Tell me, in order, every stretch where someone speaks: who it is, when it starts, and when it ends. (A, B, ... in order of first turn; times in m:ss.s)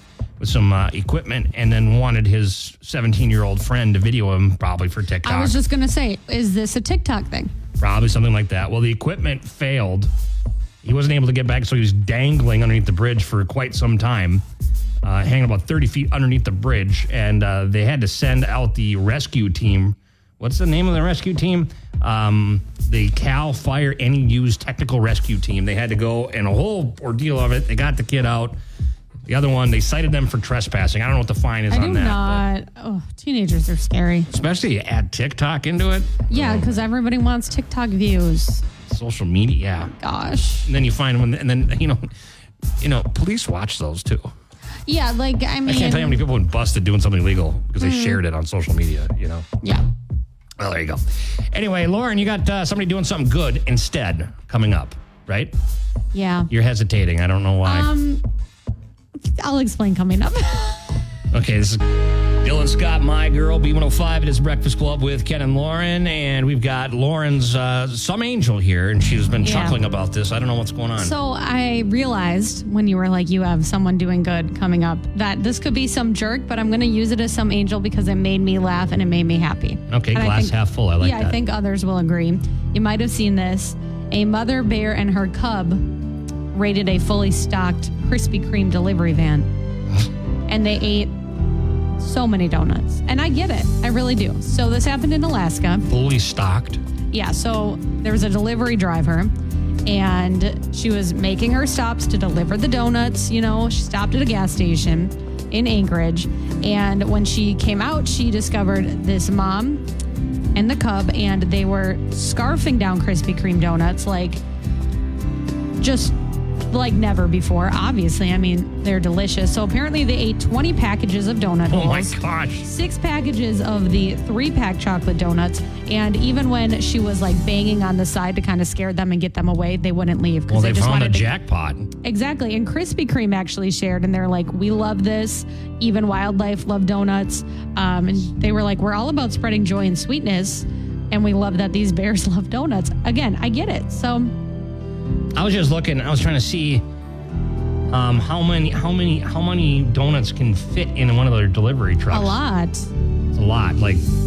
0:00.4-0:05.6 A
0:05.2-0:07.5 B
0:07.8-0:10.1 A
0:10.8-0:14.4 A
0:15.0-0:28.6 A
0:29.3-0:32.4 A
0:31.7-0:34.3 B
0:34.3-0:36.9 A
0:36.3-0:38.7 B
0:38.8-0:39.9 A
0:39.9-0:40.7 B
0:40.6-0:42.1 A
0:42.8-0:44.3 A
0:44.9-0:46.2 B
0:45.7-0:49.5 A
0:47.8-0:48.2 B
0:50.6-0:55.5 A
0:56.1-0:56.5 B
0:56.5-0:57.9 A
0:57.6-0:58.2 B
0:59.2-1:00.9 B
1:01.3-1:11.1 A
1:09.4-1:09.8 B
1:11.0-1:26.0 B
1:19.9-1:21.4 A
1:26.5-1:29.5 B
1:30.5-1:31.1 B
1:32.0-1:35.9 B
1:35.9-1:36.8 A
1:37.1-1:39.3 B
1:39.9-1:49.8 B
1:50.5-1:54.4 B
1:55.8-1:56.2 B
1:56.7-2:11.3 B
2:01.7-2:02.7 A
2:10.5-2:11.9 A
2:12.0-2:24.4 B
2:25.4-2:26.8 A
2:27.9-2:32.4 A
2:32.1-2:32.9 B
2:33.3-2:34.0 A